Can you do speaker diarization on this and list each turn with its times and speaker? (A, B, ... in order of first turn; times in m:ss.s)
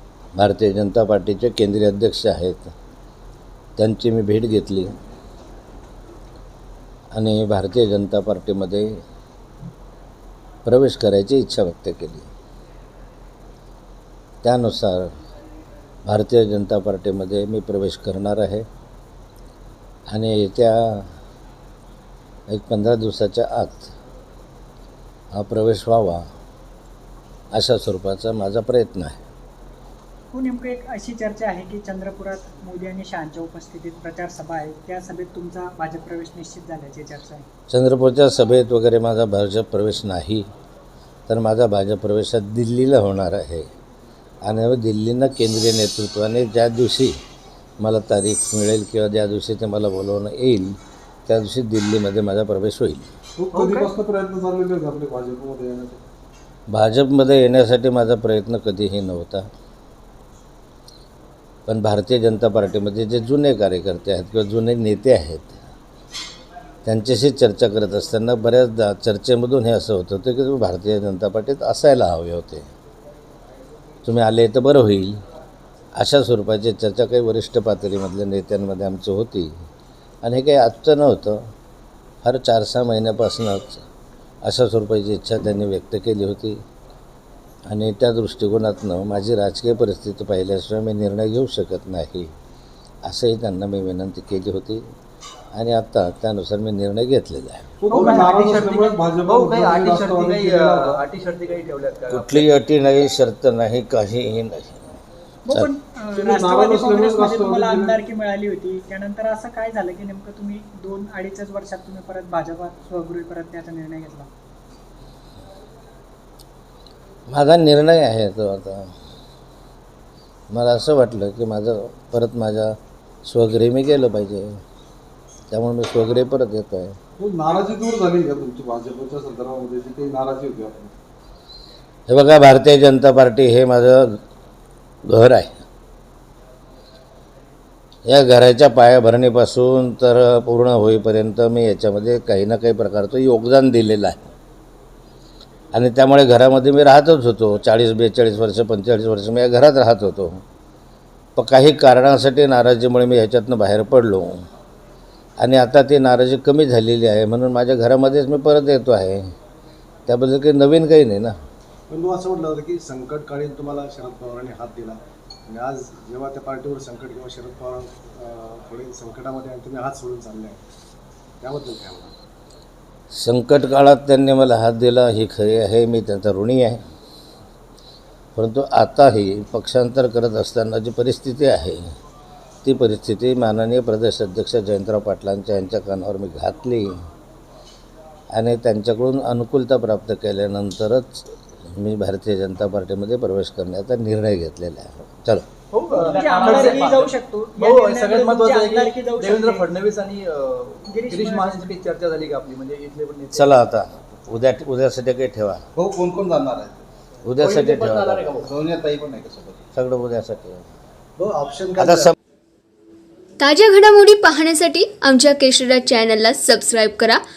0:00.4-0:02.7 A
0:03.8-0:04.9 A
0:07.1-0:08.9 A
0:10.6-0:12.3 A
0:14.4-0:15.1 A
0:16.0-0:18.7 A
0:20.1-0:21.1 A
0:22.5-0:23.9 A
0:25.3-0:26.3 A
0:27.5-0:29.2 A
0:30.3-0:37.4 B
0:37.7-0:40.4 A
0:41.3-0:43.7 A
0:44.4-0:47.2 A
0:47.8-0:50.8 A
0:51.3-0:53.1 A
0:53.4-0:56.0 C
0:53.5-0:53.9 D
0:56.7-0:59.5 A
1:01.7-1:05.6 A
1:06.8-1:12.7 A
1:14.0-1:15.2 A
1:16.0-1:19.5 A
1:20.2-1:21.4 A
1:22.2-1:23.8 A
1:24.4-1:26.6 A
1:27.7-1:32.3 A
1:33.0-1:34.8 A
1:35.6-1:37.8 A
1:37.8-1:41.0 C
1:37.9-1:38.6 B
1:37.9-1:42.5 D
1:42.1-1:45.0 A
1:45.4-1:54.3 B
1:46.1-1:48.0 C
1:57.3-1:58.9 A
2:00.5-2:04.5 A
2:05.5-2:07.0 A
2:07.2-2:10.9 C
2:12.1-2:14.2 A
2:15.0-2:15.6 A
2:18.1-2:24.3 A
2:25.7-2:30.4 A
2:31.4-2:34.4 A
2:35.4-2:39.3 A
2:40.1-2:41.3 A
2:41.9-2:50.6 E
2:51.4-2:52.1 E
2:53.2-2:56.8 A
2:58.4-3:01.8 A
3:02.6-3:06.9 A
3:08.3-3:15.5 A
3:15.7-3:23.6 D
3:16.0-3:19.7 B
3:20.9-3:21.7 B
3:23.3-3:25.6 A
3:25.8-3:29.6 F
3:27.2-3:28.5 A
3:29.7-3:30.6 A
3:31.2-3:32.2 E
3:31.8-3:32.2 A
3:33.4-3:37.2 G